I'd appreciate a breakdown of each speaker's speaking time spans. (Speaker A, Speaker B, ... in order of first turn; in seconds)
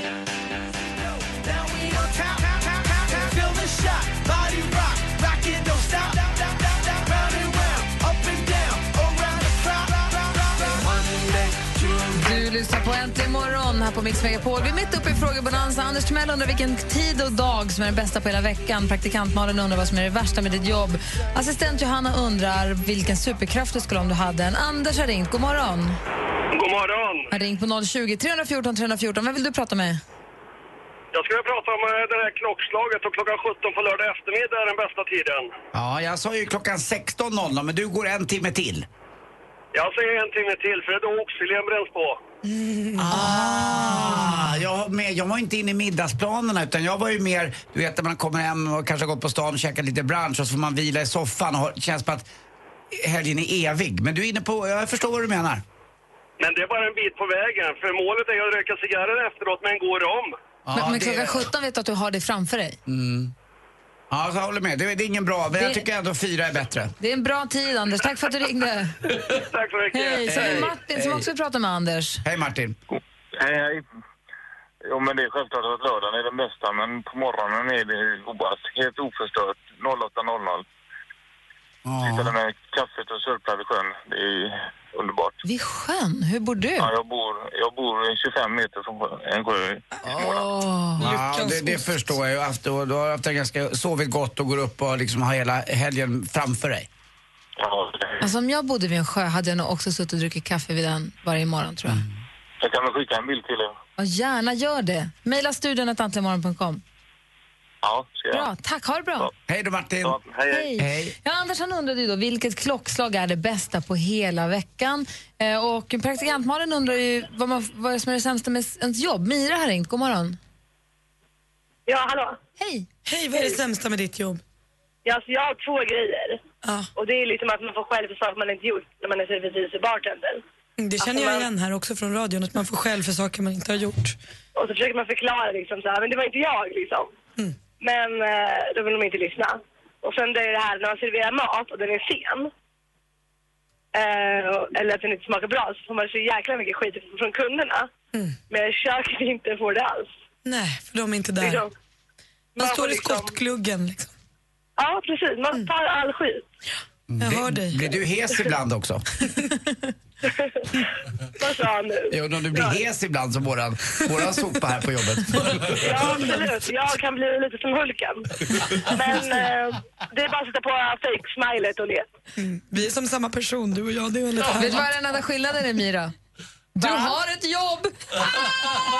Speaker A: 1.0-12.4
Speaker B: 12.2-26.0, 27.3-30.0, 60.7-62.8, 65.5-65.8, 67.0-69.0, 69.9-72.2, 85.4-86.9, 90.0-91.1, 98.2-102.0, 104.0-106.8, 108.3-109.3, 110.5-120.4, 122.6-122.9, 174.6-176.1, 176.8-178.7
Speaker C: 26.5-27.3, 31.1-35.5, 39.7-42.2, 56.4-60.3, 69.2-70.6
Speaker D: 35.7-38.9, 43.0-52.3, 52.9-55.6, 60.6-61.5, 62.9-63.3, 64.1-66.9, 70.2-71.3, 72.2-72.8, 81.8-82.3, 91.0-96.9, 109.5-110.2, 110.8-111.1, 157.1-159.1, 162.1-166.4
Speaker E: 42.5-43.2, 91.0-92.0, 123.0-124.4, 126.6-126.9, 130.8-134.2, 150.4-151.7, 152.6-154.1, 157.2-157.9, 159.2-159.9, 172.4-174.9
Speaker F: 73.4-73.8, 74.9-80.6, 82.0-85.4, 86.8-90.3, 97.6-98.2, 102.6-103.7, 107.8-108.5, 110.0-110.7
Speaker G: 121.9-122.4, 125.0-126.4, 127.0-130.4, 131.0-131.5, 134.6-137.1, 137.8-142.5, 143.9-147.9, 148.5-150.2, 151.4-151.7, 152.6-153.3, 154.8-156.4, 160.2-160.7, 161.4-162.8, 165.7-172.1